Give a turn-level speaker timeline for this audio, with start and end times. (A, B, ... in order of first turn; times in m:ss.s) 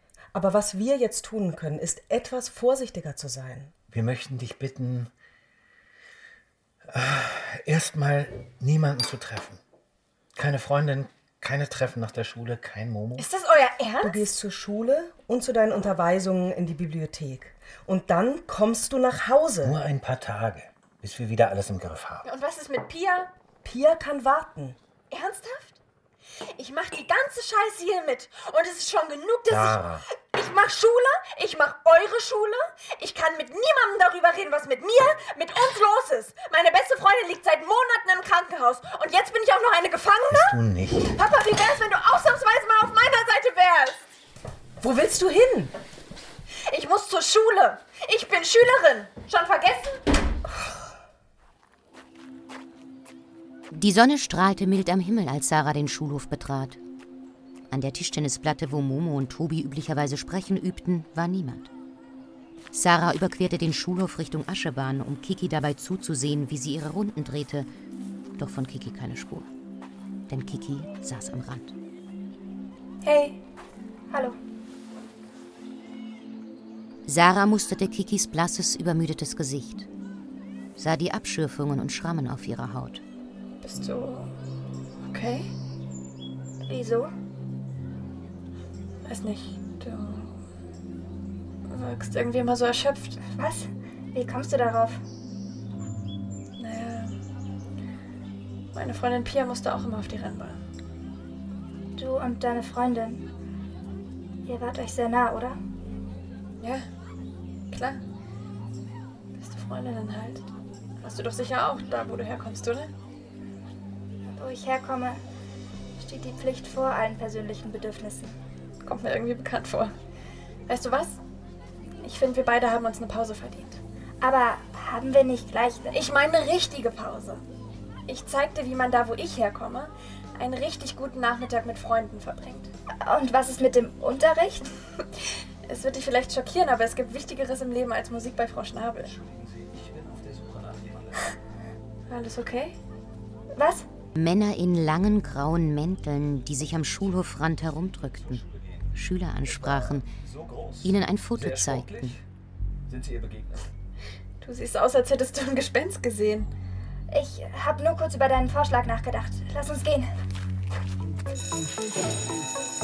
0:00.4-0:03.7 A
0:03.9-0:05.1 B
0:06.9-0:09.6 B
0:10.4-0:13.3 B
0:13.2-0:14.3 C
0:14.0-0:19.8 A
0:19.7-0:22.2 B
0:22.3-0:23.3 C
0:23.6-0:24.8 A
0:25.1-0:25.8 C
0:26.6-0:44.0 C
0:29.5-0:30.0 B
0:40.3-0:41.1 B
0:44.8-0:45.7 A
0:46.7-0:50.0 C
0:53.7-0:56.8 D
0:57.7-1:01.7 D
1:02.7-1:07.7 D
1:08.4-1:09.5 D
1:10.3-1:11.7 D
1:13.0-1:13.4 C
1:14.1-1:14.4 E
1:17.1-1:19.9 D
1:20.8-1:23.0 D
1:23.6-1:24.3 C
1:25.1-1:25.5 C
1:26.7-1:27.1 E
1:29.1-1:30.3 C
1:31.7-1:33.2 C
1:33.4-1:35.0 E
1:36.6-1:37.2 C
1:38.8-1:40.6 C
1:42.0-1:43.2 E
1:44.4-1:45.6 E
1:46.6-1:46.8 C
1:47.7-1:48.0 C
1:49.4-1:50.5 C
1:51.0-1:52.9 C
1:54.3-1:55.2 E
1:56.0-1:58.4 E
1:58.8-1:59.9 C
2:00.7-2:01.2 C
2:02.0-2:03.8 C
2:04.2-2:06.0 E
2:05.9-2:07.4 C
2:08.1-2:12.7 C
2:13.0-2:14.7 E
2:15.7-2:19.1 C
2:22.1-2:22.8 C
2:23.6-2:23.9 E
2:24.2-2:30.1 D
2:30.8-2:32.2 D
2:31.4-2:32.2 B
2:32.9-2:33.5 B
2:34.4-2:36.5 C
2:37.1-2:40.1 E